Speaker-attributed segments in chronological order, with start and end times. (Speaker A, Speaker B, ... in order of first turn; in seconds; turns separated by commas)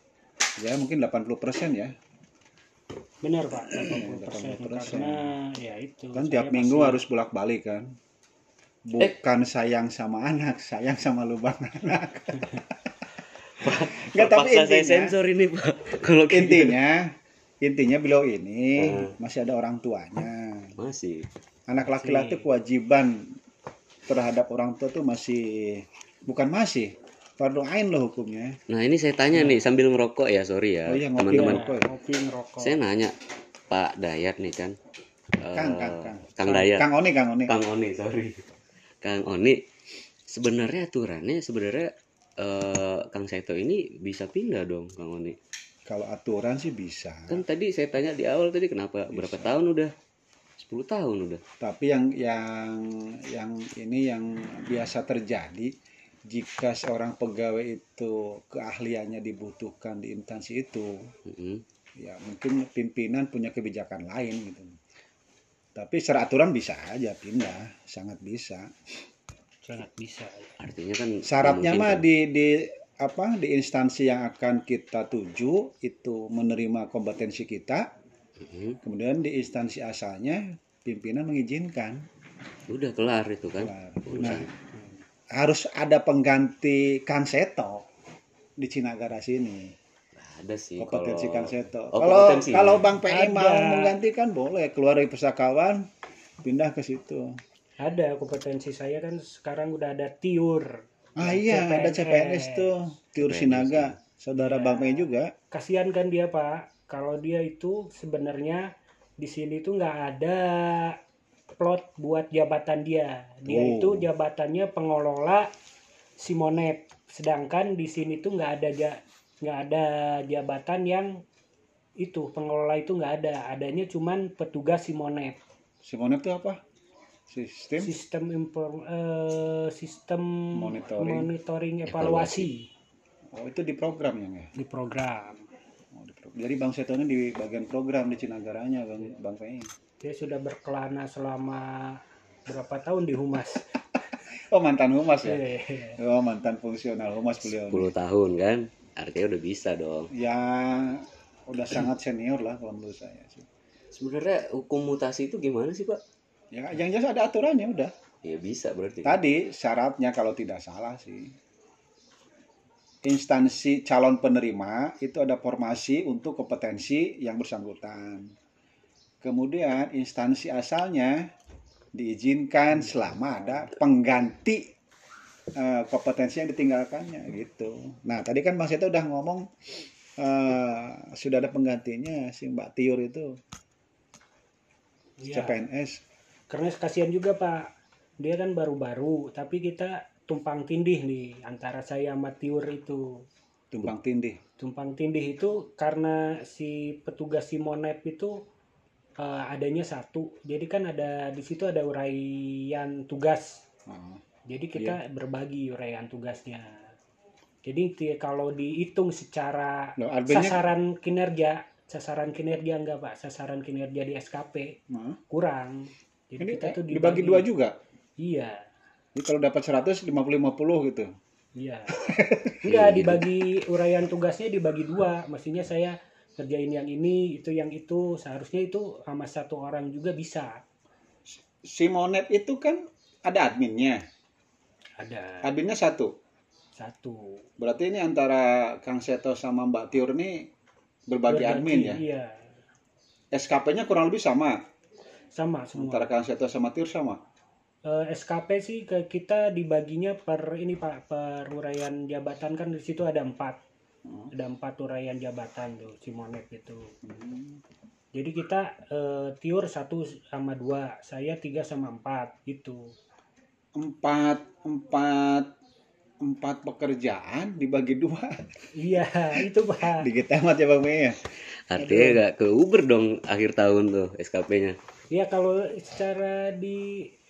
Speaker A: 0.6-1.9, Speaker B: 3.2-7.0, Speaker A: 3.7-5.3, Speaker A: 6.1-7.9, Speaker A: 8.8-12.8, Speaker C: 13.5-16.8, Speaker A: 13.6-15.2, Speaker A: 16.3-17.1, Speaker A: 17.6-20.7, Speaker C: 18.8-19.1, Speaker C: 20.8-21.2, Speaker A: 21.7-23.3, Speaker B: 21.8-22.5, Speaker A: 24.1-28.6, Speaker C: 28.7-31.6, Speaker A: 30.9-31.9, Speaker B: 31.3-32.8, Speaker C: 32.6-33.1, Speaker C: 33.7-34.7, Speaker C: 35.4-36.9, Speaker A: 35.5-37.5, Speaker C: 37.5-38.4, Speaker C: 39.0-39.6, Speaker C: 40.3-45.4, Speaker A: 45.9-47.4, Speaker C: 47.3-49.9, Speaker A: 49.1-49.6, Speaker C: 50.6-51.4, Speaker A: 51.6-55.7, Speaker A: 56.3-61.0, Speaker C: 61.3-61.6, Speaker A: 62.0-64.7, Speaker A: 65.7-68.7, Speaker B: 69.6-70.5, Speaker C: 70.6-72.0, Speaker A: 71.2-77.8, Speaker C: 78.4-78.8, Speaker A: 78.8-82.0, Speaker C: 82.7-84.5, Speaker A: 83.6-84.5, Speaker B: 84.1-85.0, Speaker A: 85.3-87.8, Speaker A: 88.6-89.7, Speaker C: 90.2-92.8, Speaker A: 90.8-95.8, Speaker B: 93.1-94.0, Speaker A: 96.4-97.4, Speaker B: 97.8-102.7, Speaker A: 101.2-105.3, Speaker C: 103.2-104.0, Speaker B: 104.3-108.6, Speaker B: 109.2-111.0, Speaker B: 111.6-115.5, Speaker A: 113.5-114.1, Speaker B: 116.2-121.1, Speaker B: 122.0-125.4, Speaker A: 125.8-126.6, Speaker A: 127.3-127.9, Speaker B: 127.8-132.7, Speaker A: 130.5-131.3, Speaker C: 131.9-132.5, Speaker A: 133.3-134.5, Speaker B: 134.6-135.4, Speaker A: 135.9-139.7, Speaker B: 140.0-143.7, Speaker A: 144.4-145.4, Speaker B: 145.2-146.0, Speaker A: 146.0-147.9, Speaker C: 147.5-150.1, Speaker A: 150.1-153.5, Speaker C: 153.9-156.0, Speaker A: 156.5-157.9, Speaker C: 158.2-159.2, Speaker A: 159.0-161.3, Speaker A: 163.0-168.3, Speaker A: 169.2-171.3, Speaker A: 171.9-174.6, Speaker A: 175.6-183.3, Speaker B: 185.2-185.6, Speaker A: 185.3-186.0, Speaker B: 186.5-187.6, Speaker B: 188.2-193.2, Speaker A: 193.7-194.4, Speaker B: 194.6-198.3, Speaker B: 199.2-203.6, Speaker A: 203.9-204.2, Speaker B: 204.5-206.9, Speaker B: 207.6-214.7, Speaker A: 210.0-210.6, Speaker A: 214.9-215.2, Speaker B: 215.3-215.8, Speaker B: 216.3-217.5, Speaker A: 216.4-217.8, Speaker B: 218.2-218.6, Speaker A: 219.1-221.1, Speaker B: 221.6-221.9, Speaker A: 221.9-222.6, Speaker B: 222.6-230.5, Speaker C: 222.7-223.2, Speaker A: 231.6-234.0, Speaker B: 235.0-235.5, Speaker A: 235.4-236.1, Speaker B: 236.8-237.4, Speaker A: 237.6-240.5, Speaker A: 241.1-242.0, Speaker B: 241.3-242.4, Speaker A: 243.3-244.6, Speaker B: 245.3-246.1, Speaker A: 245.7-247.2, Speaker B: 247.8-253.6, Speaker A: 254.1-254.3, Speaker B: 254.3-256.9, Speaker A: 257.0-257.6, Speaker B: 258.1-262.8, Speaker A: 263.8-265.5, Speaker A: 266.2-268.5, Speaker B: 268.8-270.1, Speaker A: 269.4-271.2, Speaker C: 271.7-274.8, Speaker A: 271.8-272.2, Speaker B: 275.1-276.9